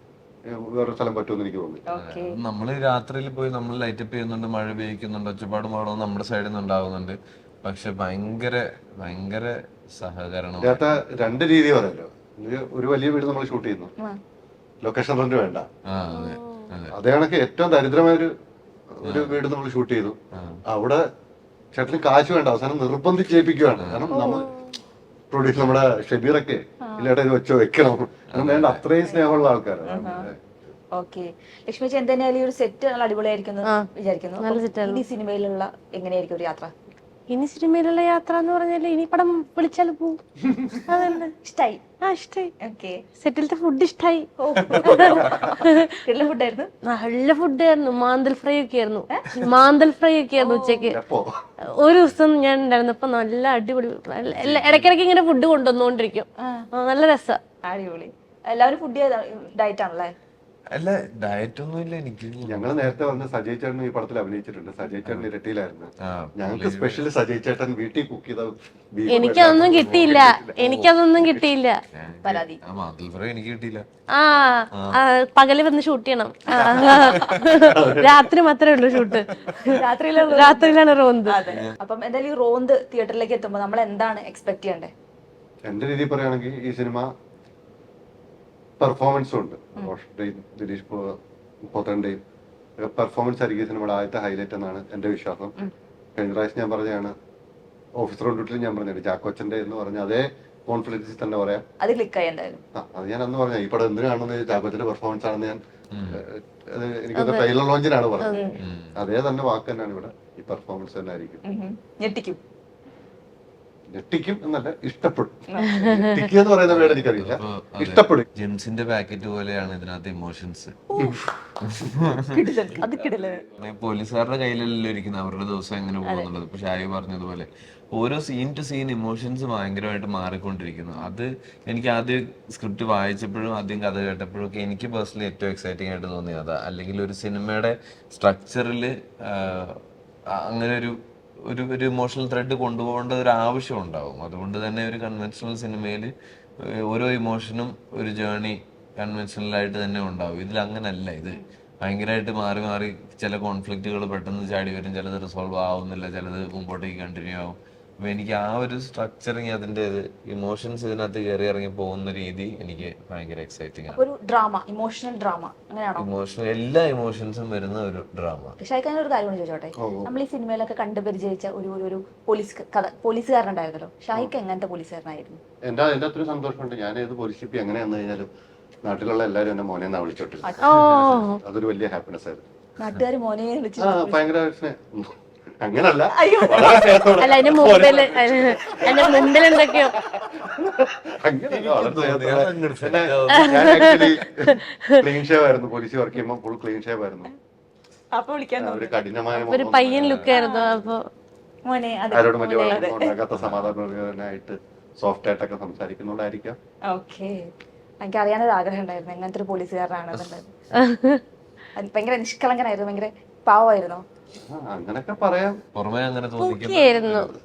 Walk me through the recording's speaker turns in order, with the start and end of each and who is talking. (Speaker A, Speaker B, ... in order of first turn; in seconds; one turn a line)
Speaker A: 0.5-1.9
Speaker B: 1.9-2.4
Speaker C: 1.9-11.0
Speaker A: 10.6-13.9
Speaker A: 14.8-15.7
Speaker C: 15.9-16.9
Speaker D: 16.1-16.7
Speaker A: 16.9-18.3
Speaker A: 18.9-21.1
Speaker C: 19.0-19.4
Speaker C: 20.3-20.6
Speaker A: 21.7-24.5
Speaker C: 23.8-24.2
Speaker D: 24.1-24.7
Speaker A: 25.3-30.4
Speaker C: 28.3-28.8
Speaker B: 29.9-30.3
Speaker B: 30.9-36.7
Speaker D: 34.4-35.0
Speaker D: 37.3-40.2
Speaker A: 40.5-40.8
Speaker D: 40.9-41.3
Speaker B: 40.9-41.8
Speaker D: 42.0-42.5
Speaker B: 42.6-43.0
Speaker D: 43.2-45.9
Speaker B: 44.4-46.7
Speaker D: 46.9-51.0
Speaker B: 50.4-50.9
Speaker A: 50.9-51.5
Speaker D: 51.7-57.4
Speaker C: 54.3-54.9
Speaker B: 56.4-56.7
Speaker B: 57.6-60.1
Speaker C: 60.7-62.9
Speaker A: 62.5-70.6
Speaker C: 66.0-67.1
Speaker D: 69.1-71.8
Speaker C: 69.3-71.0
Speaker C: 71.9-73.9
Speaker B: 72.2-72.6
Speaker D: 74.1-81.4
Speaker C: 74.7-75.0
Speaker B: 76.5-77.2
Speaker C: 76.9-77.4
Speaker A: 77.5-78.2
Speaker B: 79.5-84.9
Speaker C: 81.5-81.8
Speaker A: 85.6-87.1
Speaker A: 88.8-92.2
Speaker A: 92.8-95.5
Speaker A: 96.2-97.1
Speaker A: 98.0-101.6
Speaker B: 101.8-102.6
Speaker A: 102.7-111.4
Speaker C: 105.9-106.2
Speaker D: 107.2-107.5
Speaker D: 108.2-108.5
Speaker B: 108.3-108.6
Speaker C: 108.6-109.0
Speaker B: 111.4-112.4
Speaker A: 113.9-118.2
Speaker B: 115.5-115.9
Speaker D: 115.7-116.2
Speaker C: 116.6-120.8
Speaker B: 120.9-121.3
Speaker C: 121.6-164.0
Speaker B: 122.3-123.4
Speaker B: 163.9-166.1
Speaker C: 166.0-168.6
Speaker B: 168.6-175.4
Speaker A: 169.8-170.2
Speaker A: 175.6-178.3
Speaker A: 178.8-180.6
Speaker D: 180.6-181.4
Speaker C: 180.7-181.2
Speaker A: 181.3-182.4
Speaker B: 182.8-184.2
Speaker A: 183.8-189.3
Speaker B: 186.1-187.1
Speaker D: 187.2-189.9
Speaker B: 188.8-189.8
Speaker A: 189.9-197.3
Speaker C: 191.5-194.0
Speaker D: 193.5-195.0
Speaker B: 198.1-199.0
Speaker A: 198.6-200.2
Speaker D: 199.3-201.1
Speaker C: 199.9-200.4
Speaker B: 200.3-200.9
Speaker B: 201.7-203.1
Speaker A: 202.1-206.6
Speaker D: 202.4-202.9
Speaker C: 203.3-203.7
Speaker B: 206.9-210.5
Speaker D: 210.8-211.2
Speaker B: 211.8-214.0
Speaker A: 214.4-215.6
Speaker C: 215.7-217.3
Speaker D: 216.4-217.3